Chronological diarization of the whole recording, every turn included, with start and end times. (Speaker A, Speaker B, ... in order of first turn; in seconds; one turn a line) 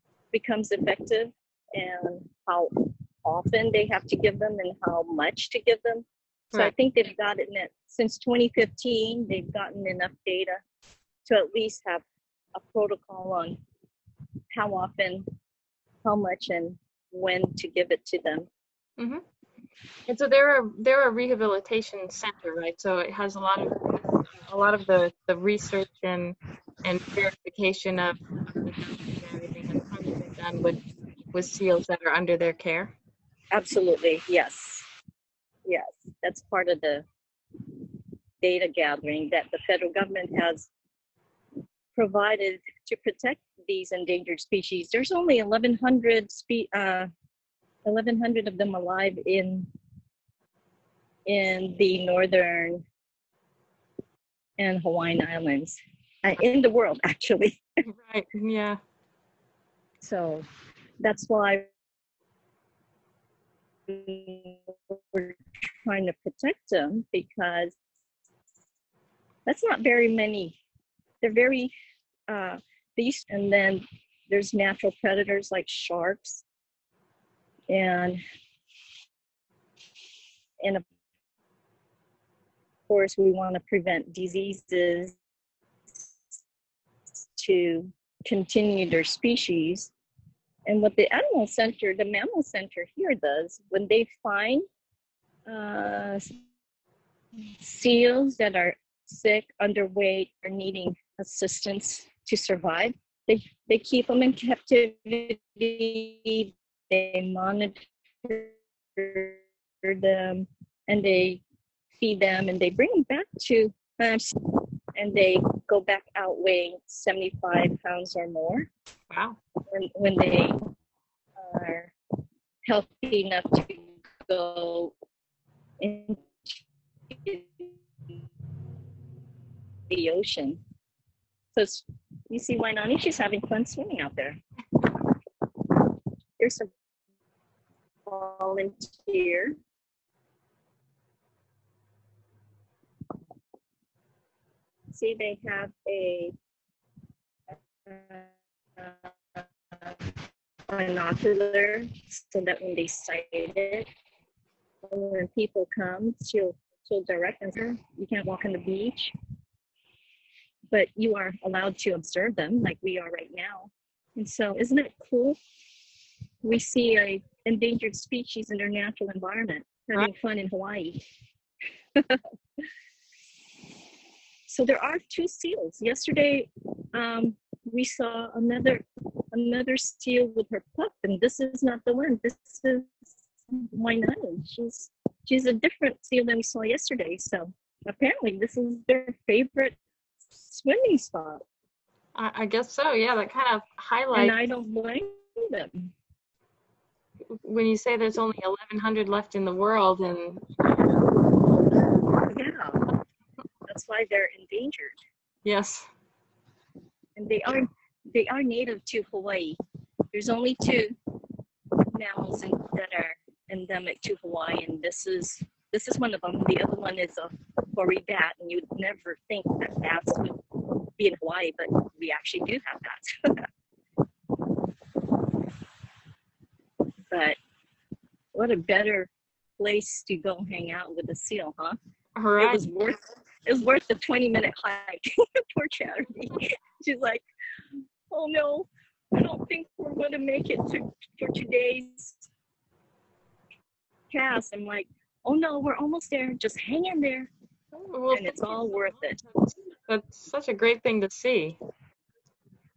Speaker A: 0.3-10.6
Speaker A: 11.2-12.0
Speaker A: 12.6-13.6
Speaker A: 14.5-15.2
Speaker A: 16.0-18.5
Speaker B: 20.1-30.8
Speaker B: 31.3-32.9
Speaker A: 33.5-34.9
Speaker A: 35.6-37.0
Speaker A: 38.4-40.7
Speaker A: 41.9-47.1
Speaker A: 47.8-49.7
Speaker A: 51.2-52.8
Speaker A: 54.6-57.6
Speaker B: 57.9-58.8
Speaker A: 60.0-60.4
Speaker A: 61.0-61.7
Speaker A: 63.9-67.8
Speaker A: 69.5-70.6
Speaker A: 71.2-71.7
Speaker A: 72.3-76.4
Speaker A: 77.7-78.2
Speaker A: 82.9-85.1
Speaker A: 87.2-89.9
Speaker A: 90.7-94.6
Speaker A: 95.5-96.2
Speaker A: 97.6-111.4
Speaker A: 112.0-118.7
Speaker B: 119.1-119.4
Speaker A: 119.7-120.6
Speaker A: 121.4-121.9
Speaker A: 122.7-124.9
Speaker A: 125.8-126.5
Speaker A: 127.1-127.7
Speaker A: 129.9-130.6
Speaker A: 131.5-134.9
Speaker A: 136.4-136.7
Speaker A: 138.1-139.6
Speaker A: 144.9-146.3
Speaker A: 147.8-150.1
Speaker A: 150.7-153.9
Speaker A: 154.8-159.1
Speaker A: 160.7-165.4
Speaker A: 166.4-171.0
Speaker A: 171.9-172.2
Speaker A: 174.5-182.9
Speaker A: 183.5-189.8
Speaker A: 190.4-191.4
Speaker B: 192.1-194.3
Speaker A: 194.1-195.7
Speaker B: 197.3-200.4
Speaker A: 202.2-202.8
Speaker A: 203.7-205.0
Speaker B: 205.4-205.9
Speaker A: 207.2-209.6
Speaker A: 210.1-210.9
Speaker A: 211.9-220.4
Speaker A: 221.0-223.4
Speaker A: 227.1-227.4
Speaker A: 228.3-231.8
Speaker B: 232.2-232.6
Speaker A: 232.4-237.2
Speaker A: 238.1-242.3
Speaker A: 244.1-247.3
Speaker B: 247.7-251.6
Speaker A: 248.1-249.2